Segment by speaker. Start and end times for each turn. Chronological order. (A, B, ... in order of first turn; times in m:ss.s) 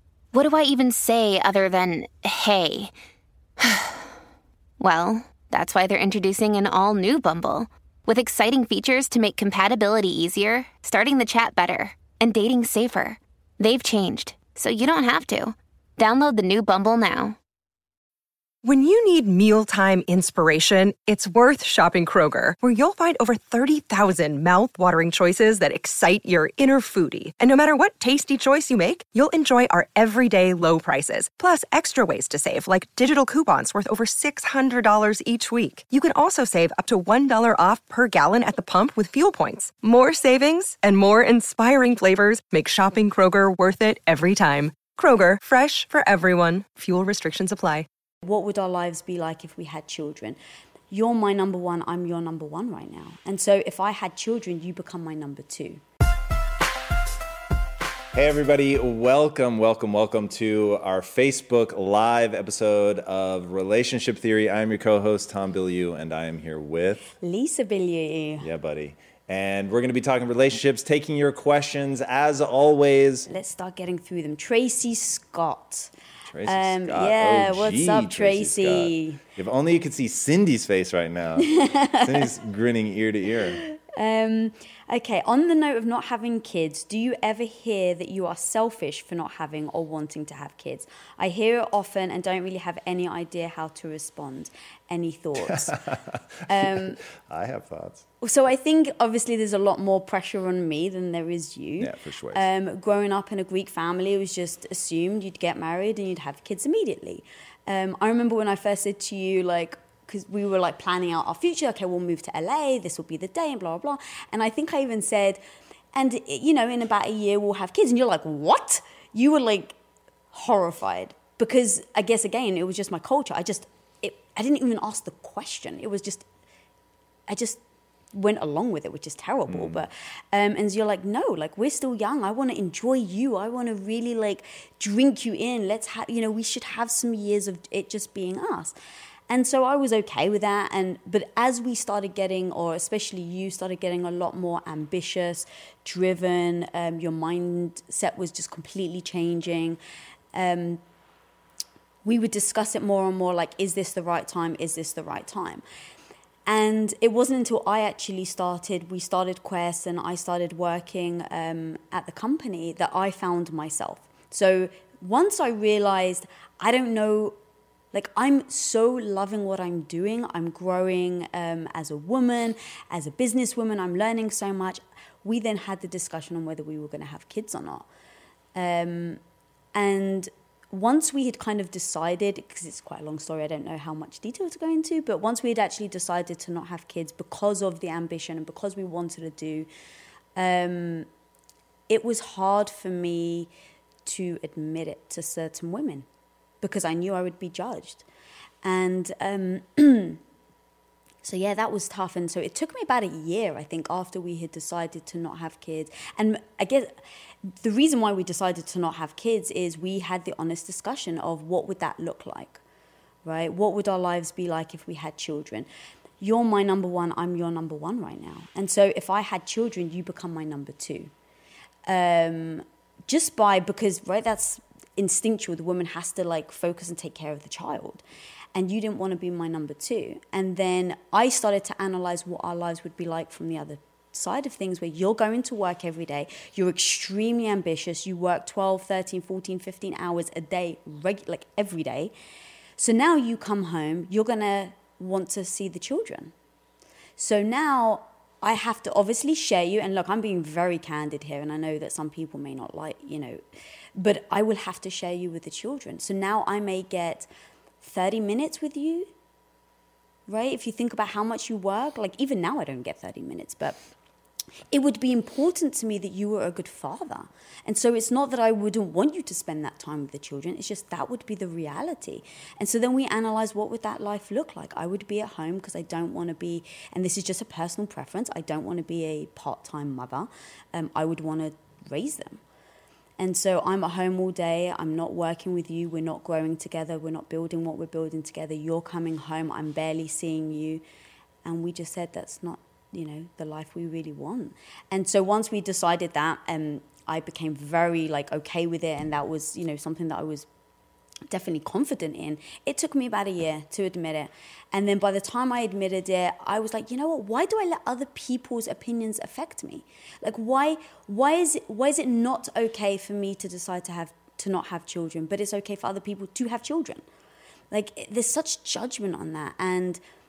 0:00.3-0:02.9 A
0:03.6-0:04.0 A
0:04.8-0:17.4 A
0:18.6-0:47.9 B
0:48.2-0:50.4 C
0:50.9-0:55.8 C
0:58.1-1:07.1 D
1:07.2-1:08.5 C
1:08.4-1:13.3 D
1:13.3-1:15.9 C
1:16.3-1:23.6 D
1:16.5-1:19.2 C
1:21.4-1:22.3 C
1:23.6-1:35.8 C
1:35.6-1:38.0 D
1:36.5-1:37.0 C
1:38.2-1:55.4 C
1:41.8-1:42.5 D
1:55.9-1:59.8 C
2:00.3-2:06.3 C
2:07.3-2:07.6 C
2:08.1-2:18.8 C
2:09.5-2:09.8 D
2:19.3-2:29.8 C
2:30.3-2:30.8 C
2:32.0-2:35.6 C
2:36.5-2:47.4 C
2:47.9-2:57.9 C
2:58.6-2:59.2 C
2:59.8-3:09.7 C
3:10.4-3:11.1 C
3:11.9-3:13.5 C
3:14.0-3:16.1 C
3:16.6-3:18.0 C
3:18.6-3:20.2 C
3:21.2-3:27.0 C
3:27.6-3:32.6 C
3:33.2-3:35.7 C
3:36.2-3:41.1 C
3:41.9-3:48.0 C
3:48.5-4:02.1 C
4:02.8-4:06.3 C
4:07.2-4:13.4 C
4:14.0-4:17.3 C
4:17.8-4:19.1 C
4:20.3-4:23.8 C
4:24.7-4:42.4 C
4:43.2-4:50.8 C
4:51.4-5:00.5 C
5:01.3-5:17.0 C
5:17.7-5:20.0 C